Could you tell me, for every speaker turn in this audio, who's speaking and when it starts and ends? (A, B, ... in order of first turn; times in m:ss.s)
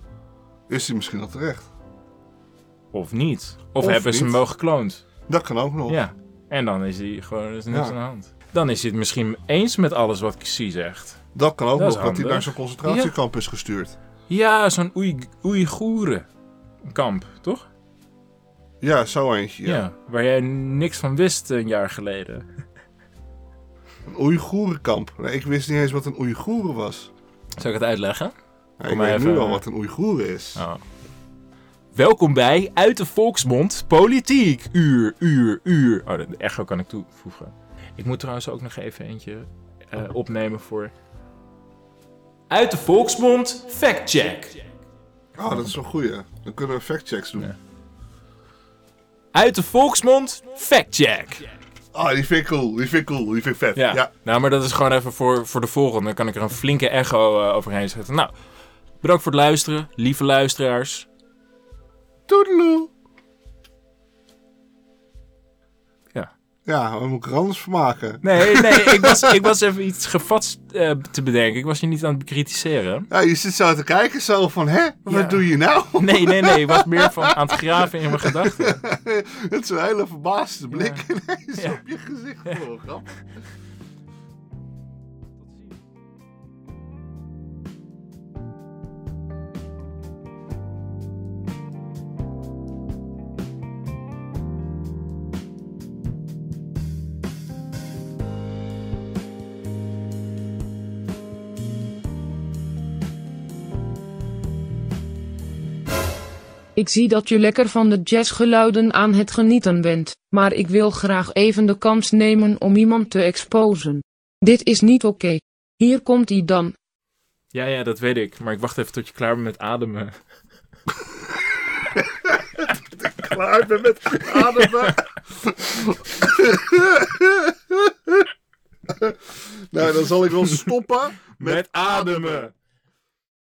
0:00.7-0:01.7 A
0:02.9-0:05.0 B
0:03.8-0:04.4 A
0:05.3-0:06.0 A
0:05.9-0:11.2 B
0:11.4-0:14.0 A
0:11.8-0:13.1 B
0:14.3-0:16.3 B
0:16.8-0:17.7 B
0:18.8-0:19.8 A
0:19.6-0:22.5 B
0:24.1-0:27.1 A
0:27.6-0:28.3 B
0:28.8-0:30.6 A
0:28.9-0:29.6 B
0:30.6-0:30.8 B
0:31.9-0:40.9 B
0:42.5-0:44.6 B
0:45.4-0:47.5 A
0:49.3-0:51.4 B
0:51.9-0:54.1 A
0:53.8-0:58.3 B
0:59.0-1:01.1 B
1:02.3-1:02.9 A
1:06.7-1:09.4 A
1:08.2-1:13.1 B
1:13.1-1:17.6 A
1:15.1-1:15.4 B
1:16.0-1:18.8 B
1:18.2-1:23.1 A
1:20.7-1:21.0 B
1:21.6-1:21.8 B
1:46.8-1:56.8 C
1:57.5-2:00.1 B
2:02.0-2:08.3 A
2:08.9-2:12.5 A
2:11.3-2:12.5 B